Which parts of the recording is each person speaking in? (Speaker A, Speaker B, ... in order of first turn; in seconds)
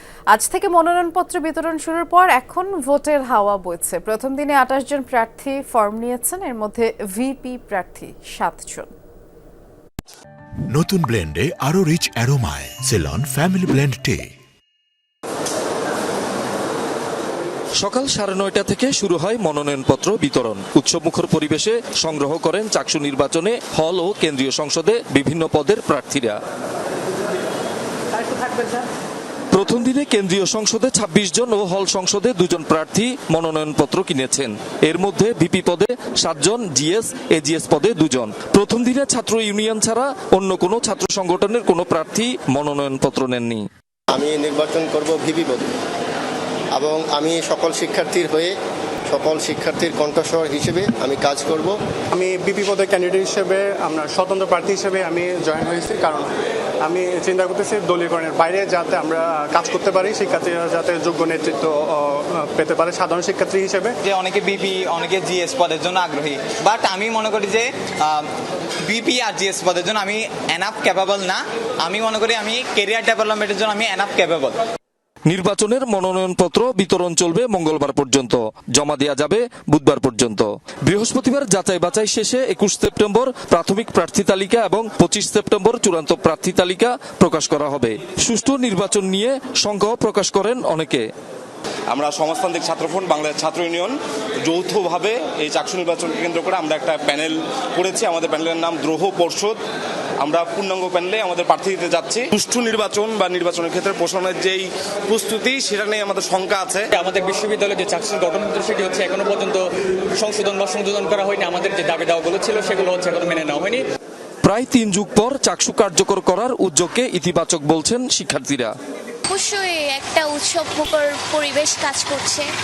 Speaker A: 0.3-8.9
Speaker B: 10.7-14.3
Speaker C: 17.8-26.4, 29.5-43.6, 75.3-91.0, 114.4-118.7
Speaker D: 44.1-45.7, 46.8-48.5, 49.1-51.8
Speaker E: 52.1-56.3, 56.8-64.0
Speaker F: 64.0-68.3, 68.8-74.6
Speaker G: 91.9-99.6, 100.2-106.9
Speaker H: 106.9-109.7, 110.2-113.8
Speaker I: 119.3-122.5